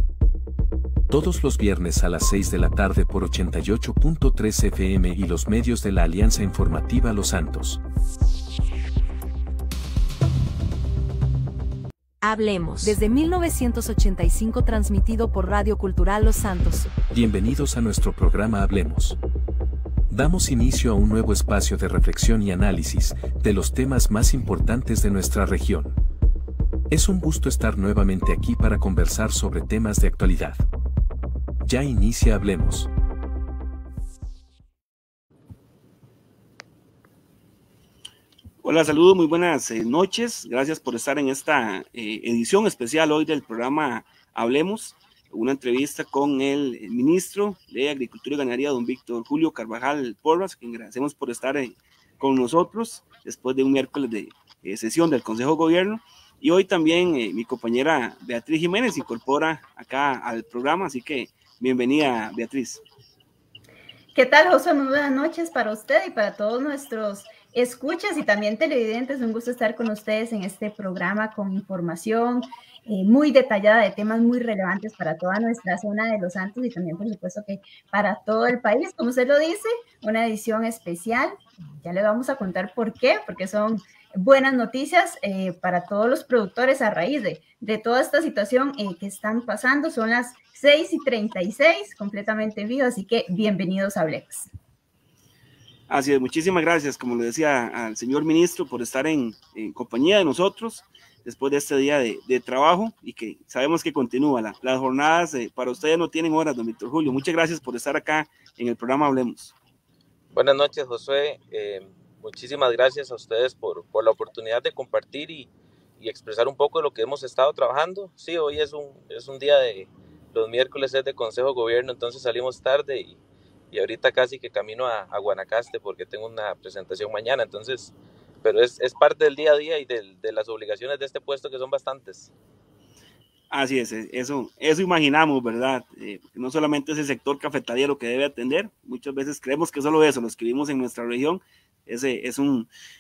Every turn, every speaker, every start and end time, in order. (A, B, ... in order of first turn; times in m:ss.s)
0:01.1-0:07.8 A
0:12.2-0:16.9 B
0:17.1-0:19.2 A
0:20.1-0:26.0 A
0:26.9-0:30.6 A
0:31.6-0:32.9 A
0:38.6-1:02.8 C
1:04.1-1:34.5 D
1:35.9-1:49.5 C
1:50.3-2:03.2 E
2:03.7-2:12.3 E
2:13.5-2:22.7 C